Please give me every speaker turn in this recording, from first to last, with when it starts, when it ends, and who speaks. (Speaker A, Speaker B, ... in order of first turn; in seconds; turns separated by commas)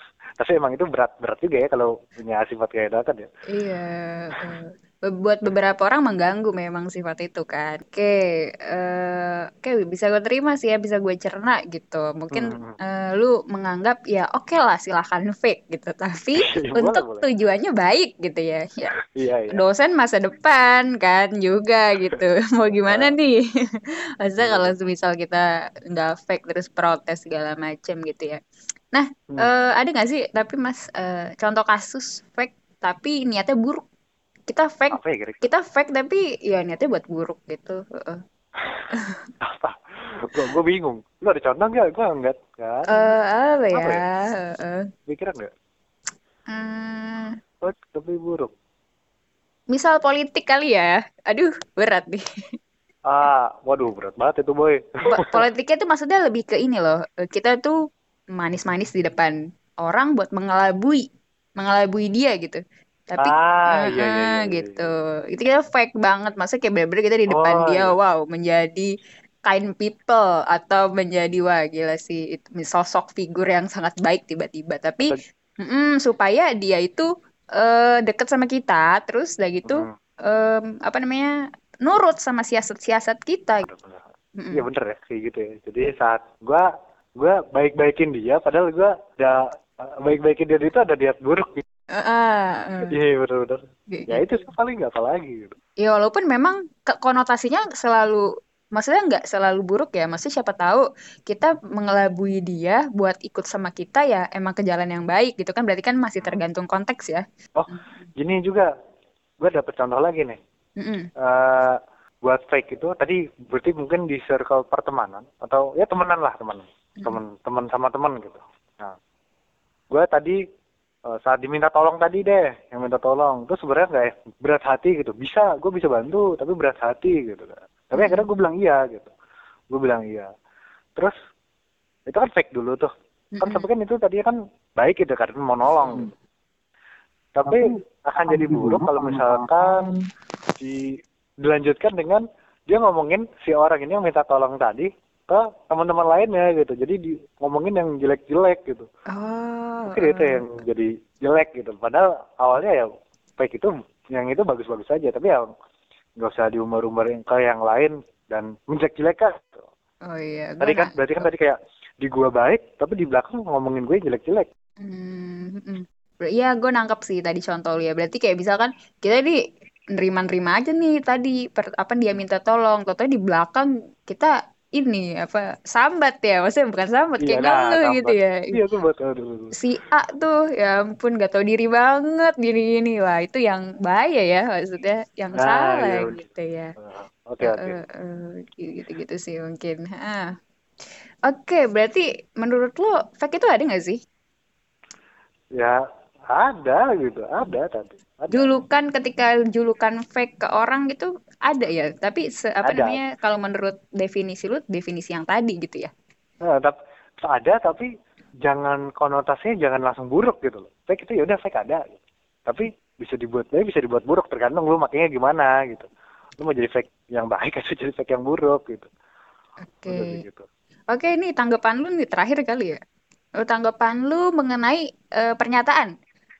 Speaker A: 0.4-3.2, Speaker B: 3.5-8.2, Speaker B: 8.7-18.9, Speaker A: 12.3-12.8, Speaker A: 16.4-17.3, Speaker A: 19.0-19.6, Speaker B: 19.5-23.4, Speaker A: 22.8-23.1, Speaker B: 24.2-28.4, Speaker A: 24.4-24.8, Speaker B: 28.9-33.8, Speaker B: 34.5-38.2, Speaker A: 34.9-35.4, Speaker B: 38.9-39.2, Speaker A: 39.4-43.1, Speaker B: 42.9-44.9, Speaker A: 43.7-44.0, Speaker A: 45.1-45.5, Speaker B: 46.5-47.4, Speaker A: 47.6-48.5, Speaker B: 49.7-52.2, Speaker A: 53.1-55.3, Speaker B: 55.1-57.7, Speaker B: 58.3-61.0, Speaker B: 61.6-68.9, Speaker A: 63.2-64.9, Speaker A: 67.3-67.9, Speaker B: 69.5-81.3, Speaker A: 79.6-80.0, Speaker B: 81.8-83.7, Speaker A: 83.6-91.6, Speaker B: 84.4-84.6, Speaker B: 92.0-92.9, Speaker A: 92.9-95.5, Speaker B: 93.9-94.5, Speaker B: 95.8-98.2, Speaker B: 98.7-108.0, Speaker A: 107.6-108.7, Speaker A: 109.4-110.4, Speaker B: 110.8-111.1, Speaker A: 111.2-118.9, Speaker A: 119.9-120.4, Speaker A: 121.1-129.1, Speaker B: 128.0-128.3, Speaker A: 129.7-130.3, Speaker A: 132.1-132.9, Speaker B: 133.3-133.7, Speaker A: 133.4-136.1, Speaker A: 137.3-139.9, Speaker A: 140.6-148.8, Speaker B: 149.1-150.4, Speaker A: 149.9-152.9, Speaker A: 153.4-155.5, Speaker A: 156.2-159.7, Speaker B: 160.1-161.3, Speaker A: 160.6-164.5, Speaker B: 164.8-169.4, Speaker B: 169.9-178.5, Speaker A: 177.2-179.5, Speaker B: 179.6-186.7, Speaker A: 185.4-186.2, Speaker A: 186.8-187.8, Speaker B: 187.4-190.2, Speaker B: 191.3-194.0, Speaker A: 195.6-198.6, Speaker B: 198.3-205.9, Speaker A: 202.6-203.0, Speaker A: 206.4-207.9, Speaker A: 208.4-218.9, Speaker B: 219.7-220.2, Speaker A: 219.9-220.4, Speaker B: 220.9-222.8, Speaker B: 223.4-225.9